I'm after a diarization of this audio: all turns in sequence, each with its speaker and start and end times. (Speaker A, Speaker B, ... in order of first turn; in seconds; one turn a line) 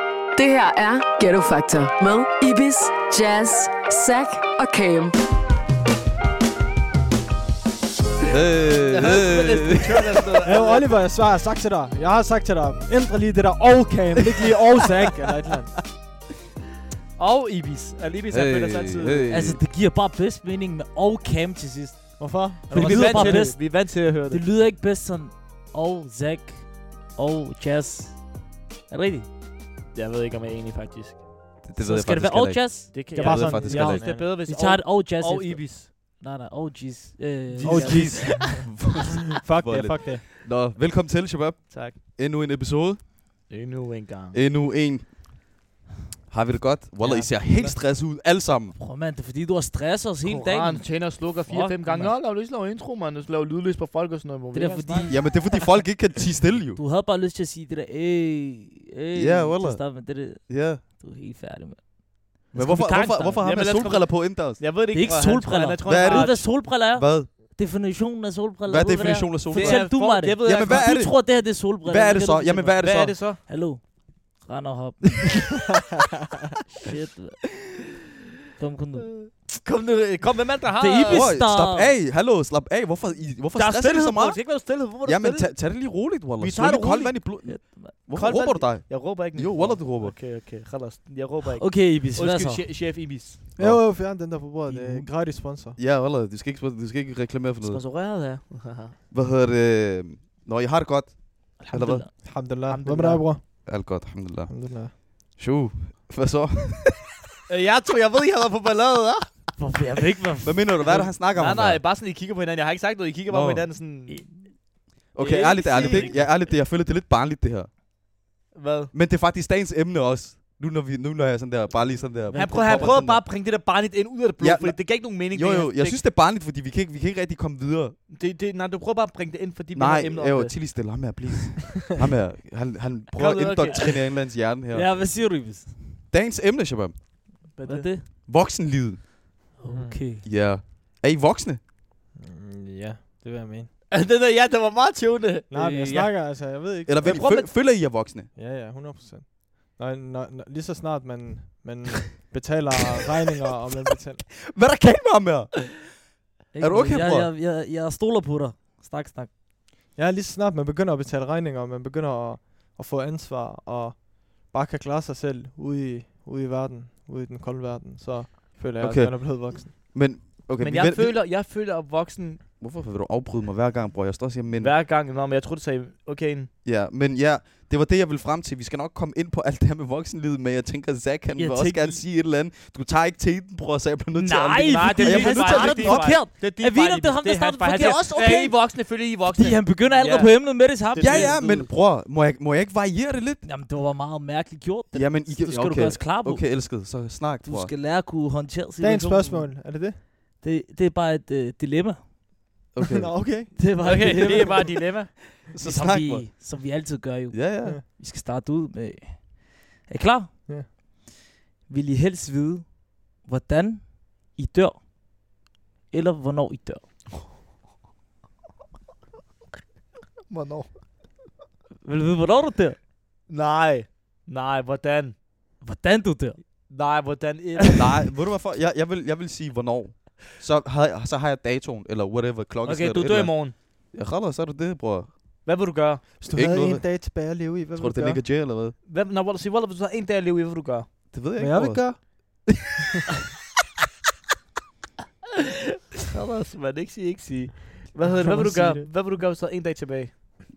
Speaker A: 0.4-5.2
Speaker B: 8.2-10.2
Speaker C: 8.9-10.9
Speaker D: 10.4-15.7
Speaker C: 17.2-19.3
Speaker B: 18.3-19.6
Speaker E: 19.3-28.3
Speaker D: 22.2-23.5
Speaker C: 22.7-24.4
Speaker E: 28.9-29.3
Speaker C: 29.9-31.2
Speaker B: 31.6-34.0
Speaker E: 31.8-33.1
Speaker C: 32.9-35.9
Speaker D: 33.1-34.3
Speaker E: 33.7-38.5
Speaker B: 37.6-43.0
Speaker D: 37.6-38.7
Speaker D: 39.4-40.3
Speaker C: 41.7-42.0
Speaker C: 43.5-44.4
Speaker B: 44.3-45.1
Speaker B: 46.3-48.8
Speaker D: 47.0-47.8
Speaker E: 48.8-52.1
Speaker C: 50.2-55.1
Speaker E: 54.5-55.7
Speaker B: 55.1-56.8
Speaker E: 56.8-63.5
Speaker B: 59.1-60.8
Speaker B: 62.5-64.6
Speaker C: 63.4-66.4
Speaker E: 64.9-75.4
Speaker B: 65.9-67.3
Speaker B: 68.7-73.2
Speaker C: 69.5-70.9
Speaker C: 72.8-73.4
Speaker E: 76.8-77.5
Speaker E: 78.6-79.2
Speaker C: 79.0-81.3
Speaker E: 80.8-81.9
Speaker B: 81.1-90.2
Speaker C: 83.5-85.7
Speaker C: 86.4-87.4
Speaker E: 87.4-87.9
Speaker C: 88.1-93.4
Speaker E: 91.6-92.6
Speaker D: 93.6-95.8
Speaker B: 93.6-94.0
Speaker B: 94.7-97.8
Speaker C: 97.6-99.0
Speaker B: 99.1-102.1
Speaker C: 101.7-103.3
Speaker D: 102.2-104.9
Speaker B: 103.6-107.0
Speaker C: 107.5-109.5
Speaker E: 109.6-110.7
Speaker B: 110.4-111.8
Speaker C: 110.8-114.5
Speaker B: 113.3-113.7
Speaker B: 115.1-117.7
Speaker C: 115.2-116.2
Speaker E: 115.7-116.2
Speaker C: 118.5-118.9
Speaker B: 118.9-123.2
Speaker D: 122.3-123.0
Speaker C: 122.3-126.0
Speaker B: 124.4-128.0
Speaker C: 128.1-131.1
Speaker B: 129.8-135.5
Speaker C: 133.1-133.9
Speaker E: 134.7-136.0
Speaker B: 136.1-137.1
Speaker C: 137.5-137.9
Speaker E: 137.7-138.1
Speaker B: 138.2-139.0
Speaker E: 139.6-140.2
Speaker D: 139.7-140.0
Speaker B: 140.2-141.6
Speaker D: 142.2-143.7
Speaker C: 143.9-146.1
Speaker D: 145.5-147.4
Speaker B: 146.9-148.3
Speaker C: 147.0-147.5
Speaker D: 148.3-154.3
Speaker B: 154.5-156.0
Speaker E: 156.5-159.3
Speaker B: 156.6-157.3
Speaker D: 159.9-169.7
Speaker B: 168.8-171.2
Speaker C: 170.6-172.4
Speaker B: 172.6-174.7
Speaker C: 174.5-176.5
Speaker B: 176.6-186.2
Speaker E: 181.3-182.0
Speaker E: 184.2-191.6
Speaker C: 184.7-191.7
Speaker B: 187.8-188.5
Speaker B: 191.0-193.4
Speaker E: 193.4-196.7
Speaker B: 194.9-197.7
Speaker E: 197.4-199.8
Speaker D: 198.8-200.0
Speaker E: 200.4-202.1
Speaker B: 202.7-203.2
Speaker D: 202.9-203.6
Speaker E: 203.6-210.3
Speaker C: 203.8-205.1
Speaker B: 205.3-206.6
Speaker B: 207.3-207.8
Speaker E: 211.7-214.8
Speaker E: 215.9-216.8
Speaker C: 220.3-220.8
Speaker E: 221.8-222.8
Speaker C: 223.3-225.2
Speaker E: 225.6-226.4
Speaker C: 226.7-227.8
Speaker B: 227.8-235.4
Speaker C: 232.7-233.6
Speaker C: 235.4-236.0
Speaker D: 236.2-238.2
Speaker B: 236.3-238.8
Speaker C: 238.8-240.9
Speaker B: 241.1-242.5
Speaker D: 241.4-242.5
Speaker C: 246.1-250.1
Speaker D: 248.1-248.9